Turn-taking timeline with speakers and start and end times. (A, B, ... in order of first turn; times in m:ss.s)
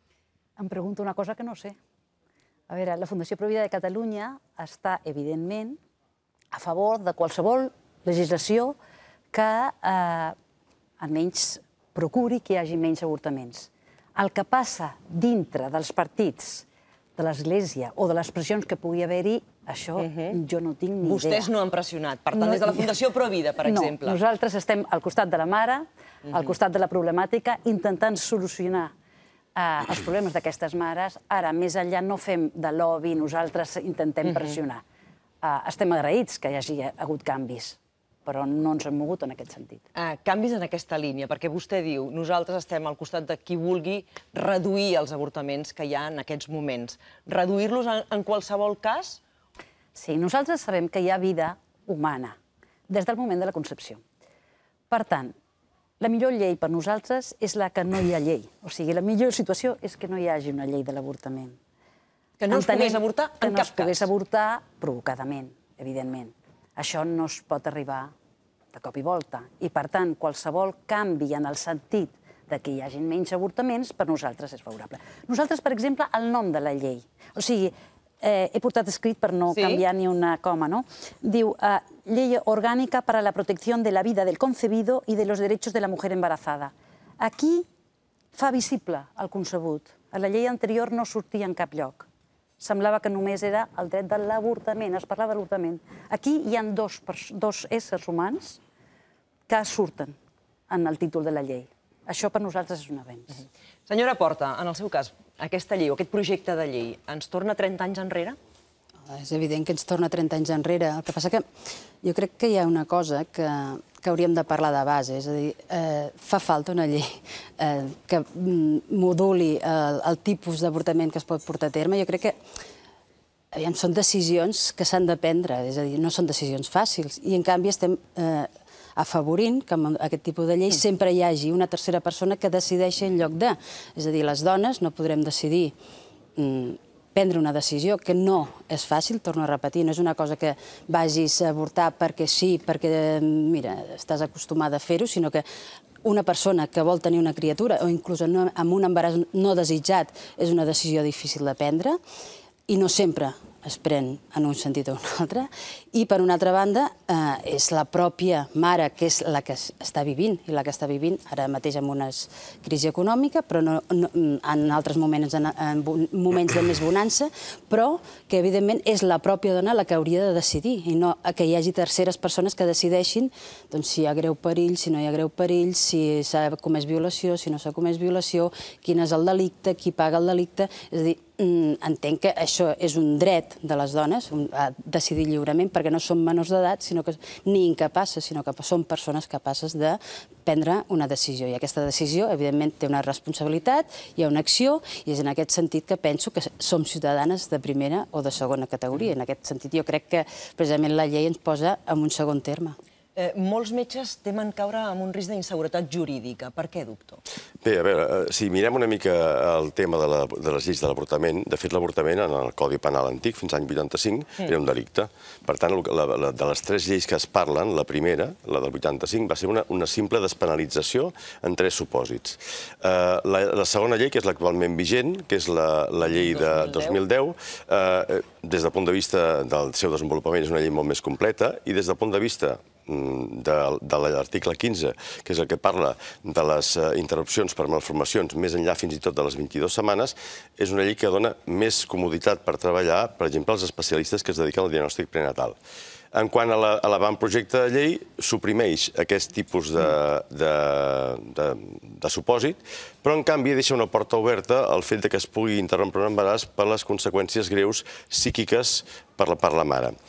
0:00.6-0:01.8 A
0:02.7-0:05.8 A
0:06.5-0:08.8 A
0:09.3-0:10.4 A
0:11.0-0:16.6 A
0:17.2-0:21.5 A
0:20.0-0:20.4 B
0:21.0-0:24.2 B
0:22.3-0:22.9 A
0:23.6-0:28.9 A
0:29.6-0:34.8 A
0:35.4-0:39.8 A
0:39.9-0:49.2 B
0:49.9-0:52.4 A
0:52.9-0:54.0 A
0:54.9-0:55.3 A
0:56.0-1:01.6 A
1:02.4-1:04.1 B
1:02.5-1:08.1 A
1:08.7-1:27.7 A
1:19.5-1:19.8 B
1:28.3-1:32.1 A
1:32.6-1:38.6 A
1:39.5-1:40.2 A
1:40.7-1:43.4 A
1:43.9-1:48.4 B
1:49.1-1:51.5 C
1:52.0-2:02.4 C
2:03.5-2:15.7 C
2:16.4-2:25.4 C
2:26.0-2:32.0 C
2:32.7-3:22.8 C
3:23.2-3:27.2 B
3:27.6-4:05.6 D
3:46.1-3:47.0 B
4:06.1-4:19.9 D